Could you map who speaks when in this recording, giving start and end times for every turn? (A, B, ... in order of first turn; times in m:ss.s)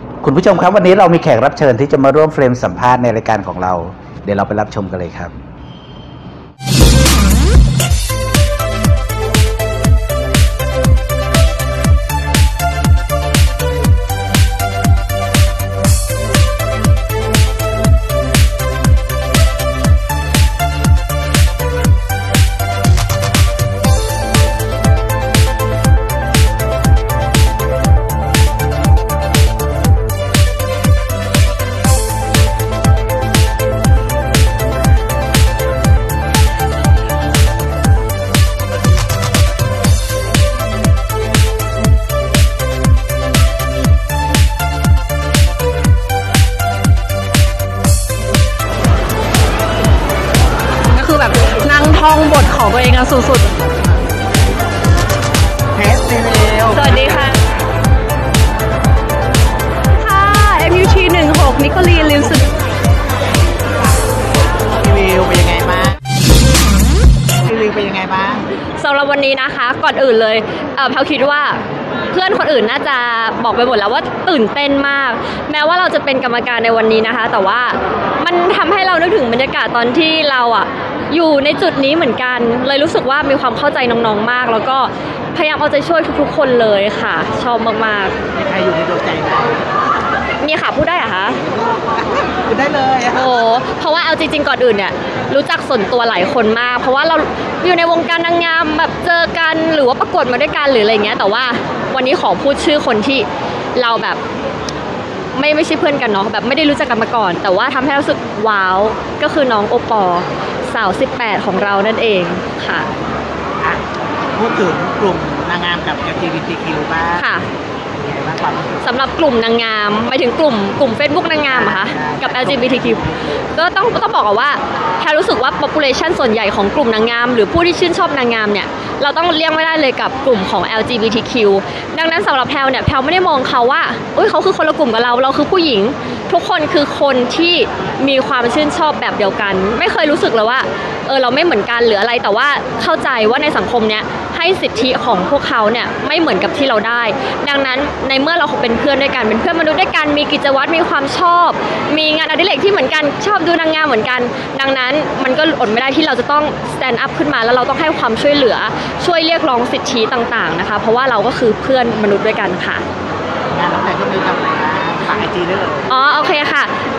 0:00.2-0:05.3 A
0:50.9-0:53.5 B
0:55.7-0:57.0 C
0:56.7-0:57.4 B
1:00.0-1:02.5 B
1:04.8-1:06.0 C
1:07.4-1:08.4 C
1:08.8-1:11.6 B
1:12.1-1:28.2 B
1:28.3-1:29.6 C
1:30.4-1:31.4 B
1:31.7-1:33.3 C
1:33.1-1:44.2 B
1:45.4-1:52.9 B
1:54.3-1:57.2 C
1:57.1-1:57.5 B
1:57.9-1:58.8 C
1:58.8-2:42.8 B
2:01.5-2:03.4 C
2:43.5-2:45.9 C
2:45.9-2:46.7 B